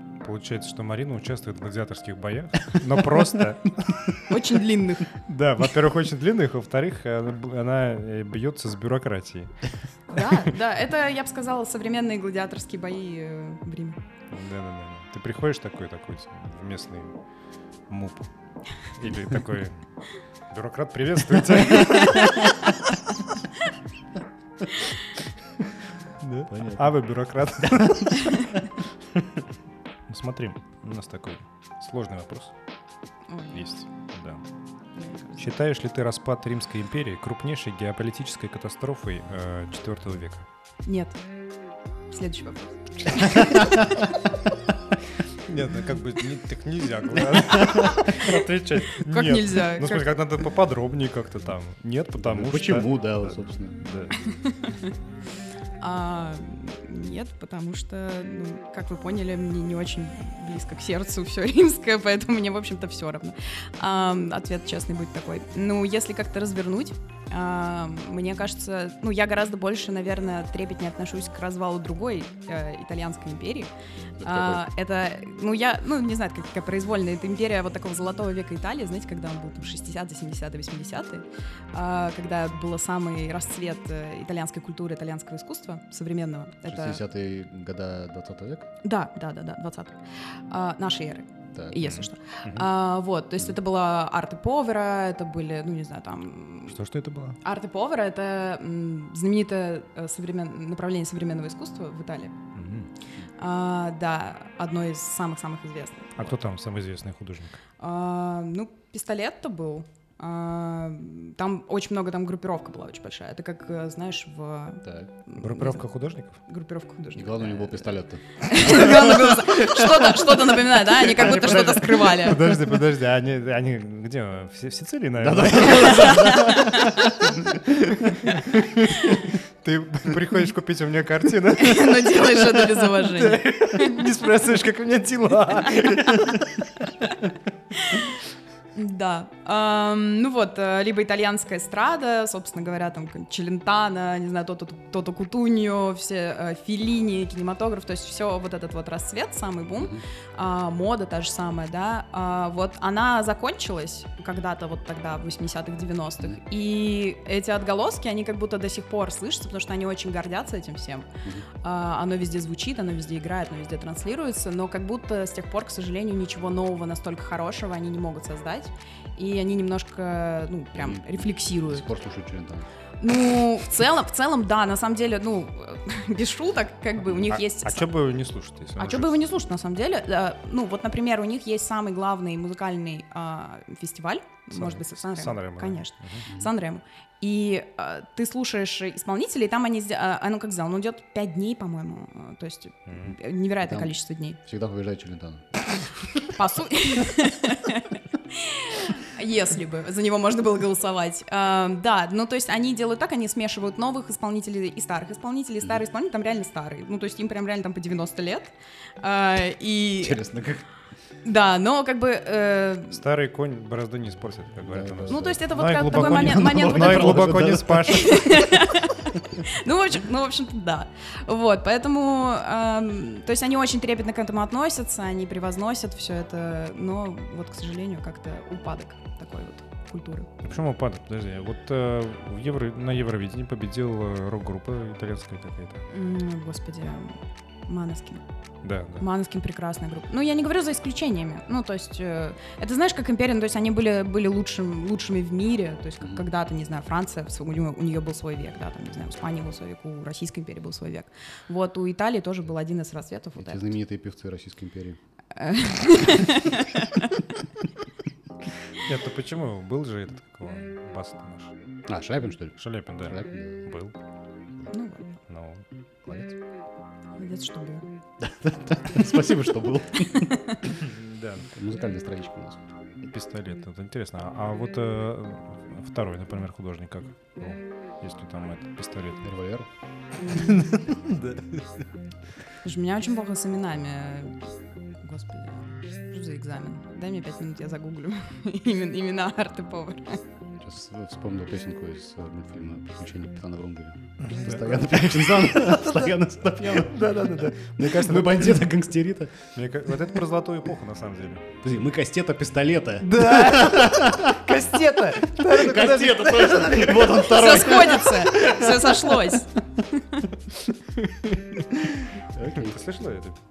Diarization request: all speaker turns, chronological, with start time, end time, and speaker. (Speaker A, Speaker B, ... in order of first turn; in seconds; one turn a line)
Speaker A: 0.2-4.2
Speaker B: 4.2-5.1
Speaker A: 5.2-10.5
Speaker B: 10.1-14.0
Speaker A: 14.3-17.2
Speaker A: 17.9-19.8
Speaker A: 20.5-23.2
Speaker A: 26.2-28.7
Speaker C: 26.5-26.8
Speaker A: 30.1-32.5
Speaker B: 33.3-33.6
Speaker A: 33.5-34.4
Speaker B: 35.0-35.4
Speaker A: 35.4-40.5
Speaker B: 40.9-41.2
Speaker B: 42.1-44.1
Speaker A: 43.1-43.6
Speaker A: 45.4-54.2
Speaker C: 47.4-48.1
Speaker B: 48.0-50.1
Speaker C: 52.2-53.8
Speaker B: 54.4-54.9
Speaker B: 55.8-73.7
Speaker C: 74.2-74.6
Speaker B: 74.2-87.0
Speaker C: 86.7-88.7
Speaker B: 88.8-90.0
Speaker B: 90.5-96.8
Speaker C: 91.5-91.8
Speaker A: 91.8-92.7
Speaker A: 96.7-97.4
Speaker B: 97.4-102.3
Speaker A: 102.5-102.9
Speaker B: 103.4-106.3
Speaker A: 106.2-107.6
Speaker B: 107.8-115.8
Speaker C: 114.8-115.1
Speaker A: 115.4-116.4
Speaker B: 116.5-122.6
Speaker C: 117.2-120.1
Speaker A: 121.0-126.7
Speaker C: 125.2-128.4
Speaker B: 125.7-127.2
Speaker A: 128.2-137.1
Speaker B: 131.6-134.0
Speaker B: 137.7-138.1
Speaker B: 138.7-161.1
Speaker B: 161.6-171.8
Speaker C: 170.8-172.7
Speaker B: 173.0-177.9
Speaker A: 177.2-179.2
Speaker B: 178.8-194.4
Speaker A: 184.5-186.2
Speaker A: 192.9-193.2
Speaker C: 193.6-195.6
Speaker B: 196.2-210.2
Speaker C: 210.0-210.6
Speaker B: 211.2-213.0
Speaker A: 212.9-218.6
Speaker C: 214.7-218.0
Speaker B: 215.1-217.2
Speaker B: 217.9-230.3
Speaker A: 230.4-235.8
Speaker B: 235.9-238.2
Speaker A: 238.6-239.0
Speaker B: 239.0-253.7
Speaker C: 253.4-255.0
Speaker B: 255.3-257.2
Speaker A: 258.8-261.5
Speaker C: 261.9-263.6
Speaker A: 262.6-263.9
Speaker B: 264.7-265.1
Speaker A: 265.3-265.6
Speaker C: 266.1-266.3
Speaker B: 267.2-267.8
Speaker C: 268.2-270.5
Speaker B: 270.2-270.6
Speaker A: 270.8-271.5
Speaker C: 271.5-272.7
Speaker A: 273.0-279.2
Speaker C: 279.2-279.7
Speaker B: 280.2-280.7
Speaker A: 280.3-281.7
Speaker B: 282.6-284.4
Speaker B: 285.0-290.2
Speaker C: 290.6-299.4
Speaker A: 294.2-298.6
Speaker A: 299.5-301.6
Speaker C: 301.6-304.6
Speaker A: 303.0-307.3
Speaker C: 305.4-309.4
Speaker B: 307.2-310.2
Speaker A: 311.0-311.6
Speaker C: 312.3-312.8
Speaker A: 312.4-313.4